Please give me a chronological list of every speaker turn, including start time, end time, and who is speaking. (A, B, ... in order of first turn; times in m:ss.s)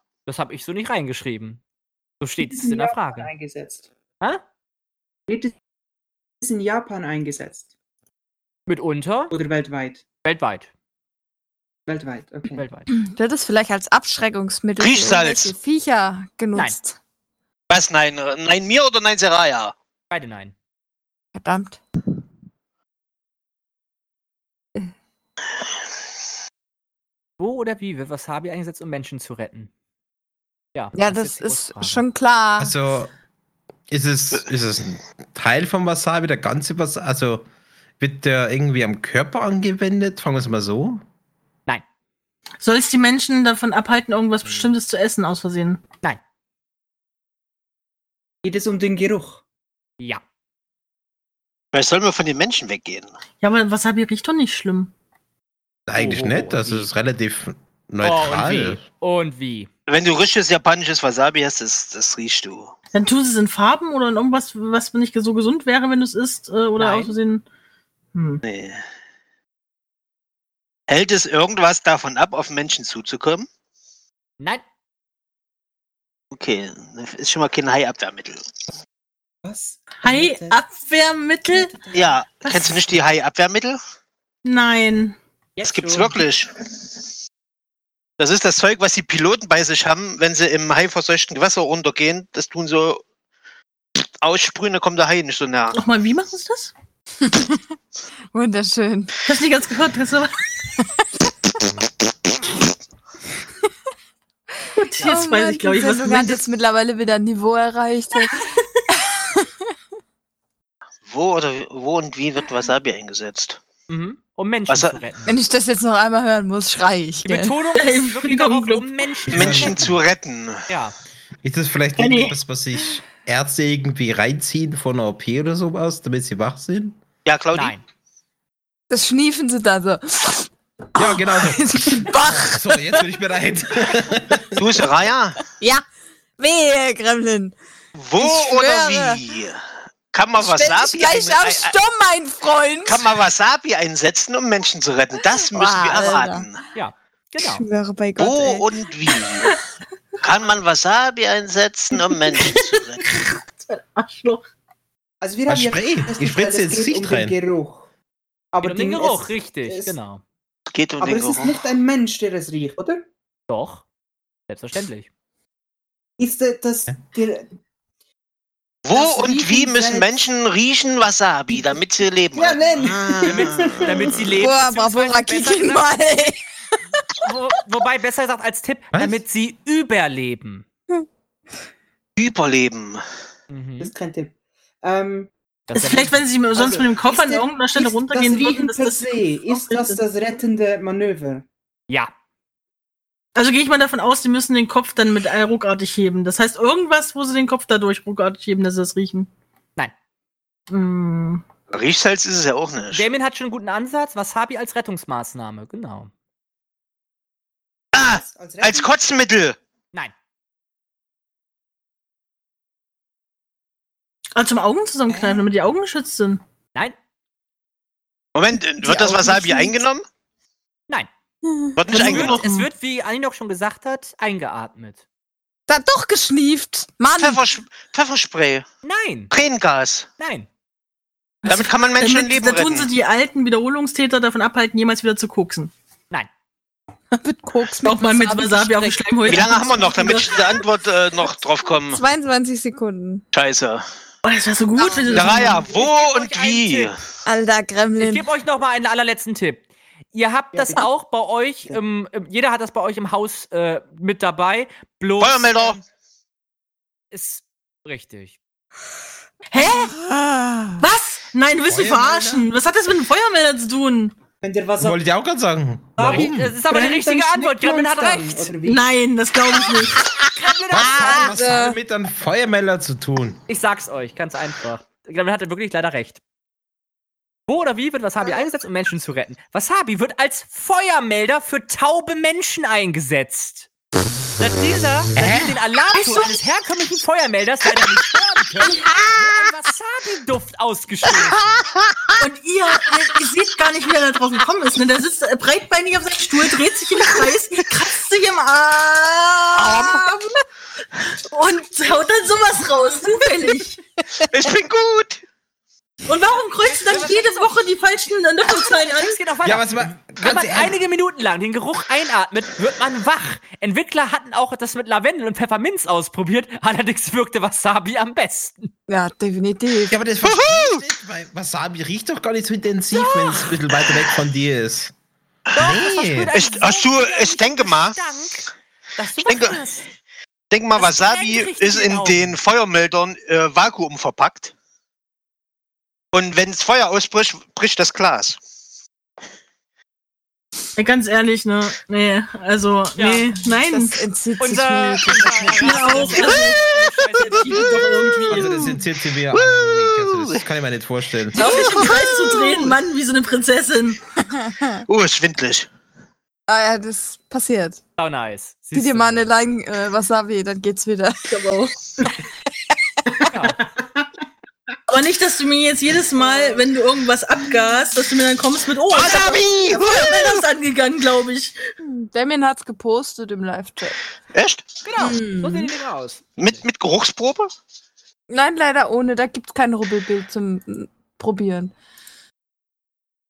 0:00.2-0:01.6 A
0:02.2-0:03.3 A
0:02.4-0:03.9 B
0:05.3-0:05.5 B
0:06.4-0:07.7 B
0:08.7-0:09.3 A
0:09.3-0:10.0 B
0:10.2-0:10.7 A
0:11.9-0:12.6 B
0:12.5-0:12.9 A
0:12.9-0:17.0 C
0:14.8-0:15.5 D
0:17.7-0:19.7 D
0:20.1-0:20.5 A
0:21.4-0:21.8 C
0:27.4-0:29.7 A
0:30.7-0:32.0 A
0:31.0-0:32.8 C
0:32.6-0:33.1 E
0:33.9-0:37.4 E
0:38.0-0:41.0 E
0:42.6-0:45.8 F
0:44.4-0:44.7 A
0:48.4-0:49.4 B
0:51.7-0:53.1 D
0:53.4-0:54.9 F
0:55.9-0:58.8 E
0:56.0-0:56.9 A
0:58.0-0:59.7 A
0:59.9-1:02.7 D
1:02.9-1:07.4 F
1:06.8-1:07.1 A
1:08.1-1:08.4 F
1:08.4-1:08.8 D
1:10.9-1:13.5 D
1:16.3-1:18.4 D
1:19.4-1:20.6 B
1:19.9-1:21.8 F
1:21.5-1:22.1 B
1:21.9-1:23.8 D
1:22.4-1:22.8 F
1:24.4-1:25.2 F
1:25.6-1:26.2 B
1:25.6-1:26.5 D
1:28.2-1:33.0 D
1:34.2-1:35.8 D
1:35.7-1:36.7 F
1:37.2-1:37.7 C
1:38.3-1:39.2 C
1:39.2-1:40.3 F
1:44.8-1:46.4 F
1:45.0-1:45.2 A
1:45.0-1:49.5 C
1:51.0-1:53.6 D
1:53.9-1:55.4 A
1:54.7-1:55.0 D
1:55.3-1:57.6 C
1:57.2-1:59.8 A
1:57.7-1:59.0 F
1:59.3-2:00.0 E
1:59.3-2:00.6 D
2:00.7-2:00.9 A
2:01.4-2:07.0 E
2:02.0-2:02.4 F
2:07.2-2:07.8 D
2:07.5-2:07.8 A
2:08.9-2:13.0 C
2:11.0-2:14.8 E
2:14.6-2:15.4 D
2:16.4-2:17.5 C
2:18.0-2:19.6 D
2:18.2-2:19.2 C
2:20.1-2:21.7 D
2:20.4-2:23.0 C
2:22.8-2:26.6 D
2:25.4-2:26.4 C
2:26.7-2:27.6 A
2:27.4-2:28.6 C
2:28.2-2:29.5 D
2:30.2-2:33.3 D
2:32.1-2:34.4 F
2:35.2-2:37.9 B
2:35.5-2:37.3 E
2:38.5-2:39.9 B
2:38.6-2:40.2 A
2:40.7-2:41.6 D
2:41.0-2:43.0 B
2:43.5-2:43.8 A
2:44.5-2:45.1 A
2:46.2-2:47.5 B
2:48.8-2:53.8 D
2:48.9-2:50.1 B
2:51.5-2:51.8 B
2:52.3-2:54.2 B
2:53.2-2:55.8 A
2:54.3-2:56.4 C
2:57.1-3:00.6 A
2:58.9-2:59.2 E
3:02.2-3:03.0 D
3:03.5-3:03.9 A
3:03.8-3:05.3 B
3:05.7-3:06.2 A
3:05.7-3:10.0 F
3:06.5-3:11.4 B
3:13.3-3:19.3 F
3:20.7-3:21.4 F
3:21.7-3:23.0 D
3:22.9-3:26.1 A
3:27.9-3:28.9 B
3:27.9-3:29.6 D
3:34.3-3:36.4 F
3:38.3-3:40.0 D
3:38.8-3:39.8 C
3:41.4-3:41.8 C
3:41.8-3:42.4 D
3:41.9-3:42.7 F
3:41.9-3:45.0 A
3:45.7-3:47.4 C
3:47.2-3:48.6 D
3:48.8-3:49.3 A
3:49.3-3:50.1 D
3:50.2-3:50.5 A
3:51.4-3:55.7 F
3:51.4-3:52.9 D
3:57.2-4:00.3 C
3:57.8-4:00.6 F
3:59.2-4:02.0 D
4:01.9-4:03.2 C
4:03.3-4:03.8 D
4:04.2-4:05.7 F
4:04.8-4:05.3 C
4:05.1-4:05.4 B
4:05.1-4:07.0 D
4:05.2-4:07.0 A
4:07.2-4:08.2 C
4:08.0-4:09.6 A
4:10.1-4:15.8 A
4:10.5-4:10.9 B
4:15.2-4:15.8 D
4:17.1-4:18.4 A
4:19.5-4:20.0 F
4:19.8-4:20.8 C
4:20.8-4:24.2 F
4:21.6-4:22.5 E
4:24.4-4:25.0 B
4:24.8-4:26.6 E
4:26.0-4:28.5 A
4:26.0-4:28.9 B
4:28.6-4:30.0 F
4:30.3-4:31.7 A
4:30.7-4:33.4 E
4:30.7-4:31.8 C
4:33.5-4:36.2 A
4:37.5-4:43.7 A
4:38.2-4:38.5 B
4:44.4-4:51.6 A
4:45.2-4:45.5 E
4:45.9-4:46.4 F
4:52.2-5:00.1 F
4:59.6-5:00.0 D
4:59.6-5:00.3 C
5:01.0-5:03.8 F
5:04.2-5:05.2 D
5:06.1-5:09.2 F
5:06.4-5:07.5 A
5:08.6-5:18.7 A
5:09.4-5:10.8 E
5:18.9-5:20.0 C
5:19.9-5:24.9 E
5:20.2-5:20.8 D
5:25.5-5:29.9 A
5:25.6-5:26.3 E
5:26.3-5:28.0 D
5:29.2-5:29.6 D
5:30.5-5:34.5 D
5:30.8-5:32.3 A
5:36.1-5:38.4 D
5:40.8-5:44.0 F
5:43.0-5:43.3 A
5:43.6-5:46.4 C
5:44.4-5:48.7 A
5:45.4-5:48.7 F
5:48.3-5:51.4 E
5:49.3-5:50.4 D
5:51.3-5:54.0 F
5:54.2-5:54.8 C
5:54.9-5:55.7 D
5:56.5-5:57.8 C
5:58.0-5:59.3 A
5:58.7-6:01.3 C
6:01.3-6:01.7 F
6:03.1-6:04.1 B
6:03.3-6:03.6 A
6:04.9-6:11.6 F
6:08.9-6:09.8 D
6:11.8-6:14.0 C
6:14.3-6:14.6 D
6:14.8-6:16.6 A
6:15.0-6:15.6 C
6:16.4-6:17.5 D
6:18.3-6:21.7 C